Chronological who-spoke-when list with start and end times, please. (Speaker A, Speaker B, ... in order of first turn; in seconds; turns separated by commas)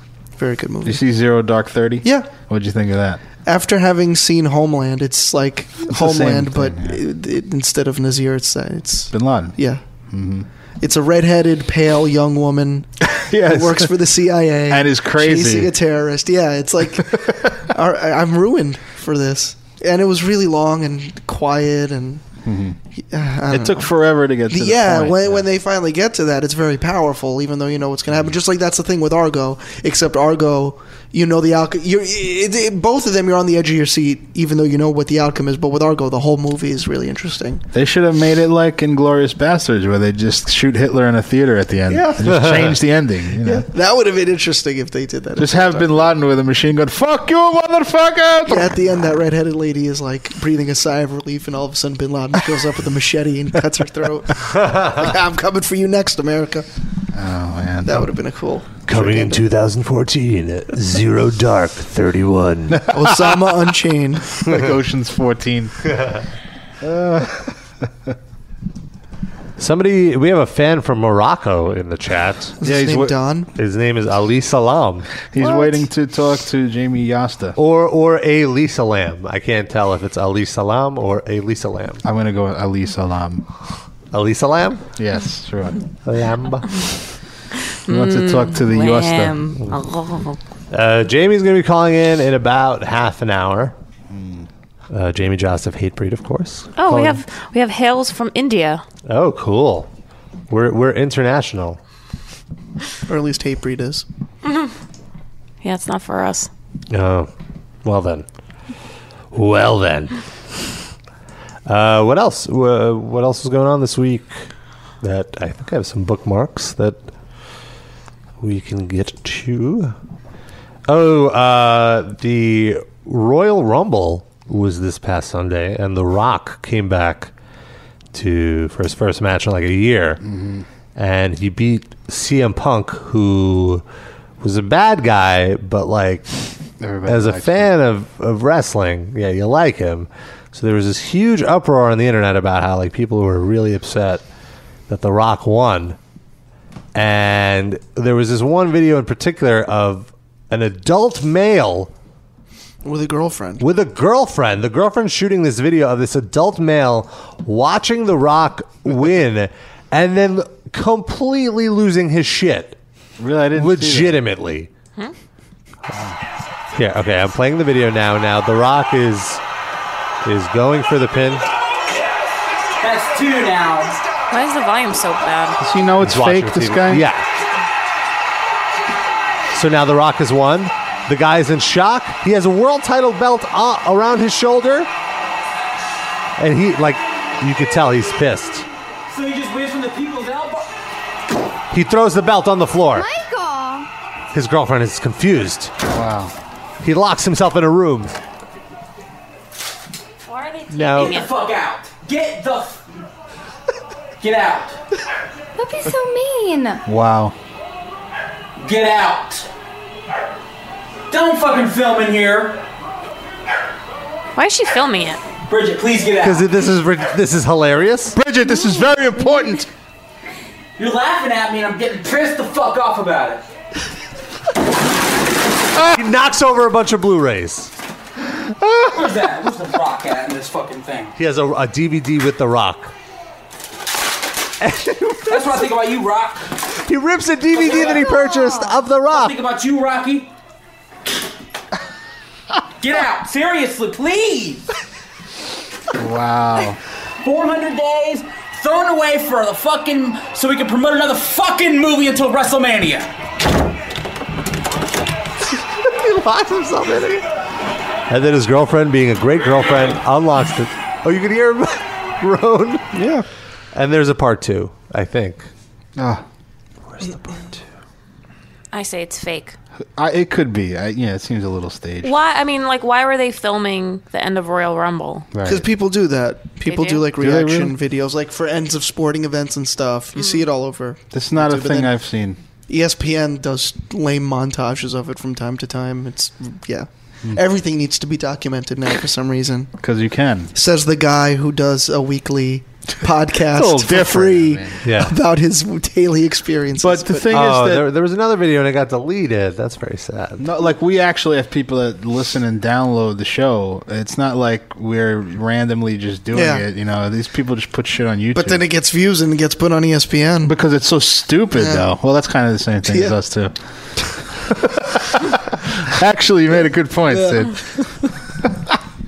Speaker A: 0.4-1.0, Speaker B: 0.8-3.2, Speaker A: 2.0-2.3, Speaker A: 3.4-9.8, Speaker B: 5.9-7.0, Speaker B: 9.1-9.6, Speaker B: 10.1-10.5, Speaker A: 10.8-12.9, Speaker B: 13.1-14.0, Speaker A: 13.4-22.2, Speaker B: 14.7-15.7, Speaker B: 22.4-22.8, Speaker A: 23.0-23.9, Speaker B: 23.5-25.5, Speaker A: 24.5-37.6, Speaker B: 37.7-43.7, Speaker A: 41.9-42.5, Speaker A: 43.4-46.1, Speaker B: 45.4-48.8, Speaker A: 48.5-56.6, Speaker B: 57.1-58.1, Speaker A: 57.8-59.4, Speaker C: 58.9-62.8, Speaker B: 62.7-63.1, Speaker A: 62.9-64.3, Speaker B: 64.4-65.9, Speaker B: 66.8-67.5, Speaker C: 69.6-72.5, Speaker A: 72.6-73.5, Speaker B: 72.6-73.2, Speaker C: 73.5-75.1, Speaker B: 75.3-77.5, Speaker A: 75.4-75.8, Speaker C: 77.5-82.0, Speaker B: 82.0-83.5, Speaker C: 84.1-84.8, Speaker B: 85.0-85.8, Speaker C: 86.0-86.8, Speaker D: 87.9-90.4, Speaker B: 87.9-89.4, Speaker C: 90.7-93.7, Speaker B: 94.1-94.5, Speaker C: 94.9-97.2, Speaker D: 96.8-98.8, Speaker C: 99.0-99.9, Speaker C: 100.5-101.8, Speaker A: 103.1-104.0, Speaker D: 105.6-106.5, Speaker C: 106.9-107.3, Speaker C: 107.8-108.2, Speaker C: 109.3-110.1, Speaker C: 111.7-114.4, Speaker C: 115.0-117.0, Speaker C: 118.4-119.9, Speaker C: 120.9-127.3, Speaker C: 128.1-130.2, Speaker B: 130.2-130.7, Speaker C: 130.9-133.8, Speaker C: 134.4-136.2, Speaker B: 136.8-137.7, Speaker C: 137.0-144.2, Speaker C: 144.9-146.0, Speaker C: 146.9-151.9, Speaker A: 152.8-153.6, Speaker C: 153.6-162.8, Speaker B: 163.2-164.2, Speaker C: 163.5-164.7, Speaker C: 166.7-169.4, Speaker C: 170.2-171.5, Speaker E: 172.8-174.0, Speaker D: 174.3-175.6, Speaker B: 175.6-177.1, Speaker C: 176.0-177.3, Speaker C: 179.5-184.9, Speaker C: 186.4-188.7, Speaker E: 189.1-190.7, Speaker C: 191.7-193.1, Speaker F: 192.9-193.9, Speaker C: 194.3-195.7, Speaker B: 195.9-196.3, Speaker C: 196.8-198.1, Speaker D: 200.2-201.3, Speaker C: 200.7-201.1, Speaker E: 200.9-202.9, Speaker E: 204.2-204.8, Speaker F: 205.6-206.8, Speaker B: 206.8-207.3, Speaker E: 208.6-209.5, Speaker E: 211.1-212.6, Speaker D: 214.3-215.2, Speaker E: 215.5-216.4, Speaker C: 216.2-218.2, Speaker B: 218.2-219.7, Speaker E: 220.8-223.4, Speaker C: 225.9-227.7, Speaker E: 228.9-231.1, Speaker C: 231.2-232.9, Speaker C: 234.6-235.7, Speaker E: 235.2-236.5, Speaker C: 236.8-239.3, Speaker E: 237.5-238.1, Speaker F: 238.2-238.5, Speaker E: 239.1-240.3, Speaker E: 242.8-244.7, Speaker B: 245.9-246.8, Speaker E: 247.2-253.1, Speaker C: 255.8-257.2, Speaker C: 258.1-263.0, Speaker A: 262.9-263.2, Speaker C: 263.7-265.5, Speaker B: 266.0-266.2, Speaker C: 266.9-267.6, Speaker D: 268.7-269.6, Speaker B: 270.0-272.1, Speaker D: 272.0-275.3, Speaker B: 275.3-275.6, Speaker A: 275.4-281.9, Speaker D: 276.6-277.0, Speaker B: 277.2-277.7, Speaker D: 280.1-280.4, Speaker B: 281.1-282.4, Speaker A: 282.7-289.7, Speaker B: 289.8-290.5, Speaker A: 290.5-297.3, Speaker B: 293.5-294.8, Speaker C: 294.8-295.2, Speaker B: 296.8-297.9, Speaker C: 297.3-300.4, Speaker B: 300.4-308.6, Speaker A: 306.3-306.6, Speaker A: 308.3-310.5, Speaker B: 310.4-313.5, Speaker A: 311.6-311.9, Speaker A: 312.9-313.1, Speaker B: 315.8-317.6, Speaker A: 317.1-317.5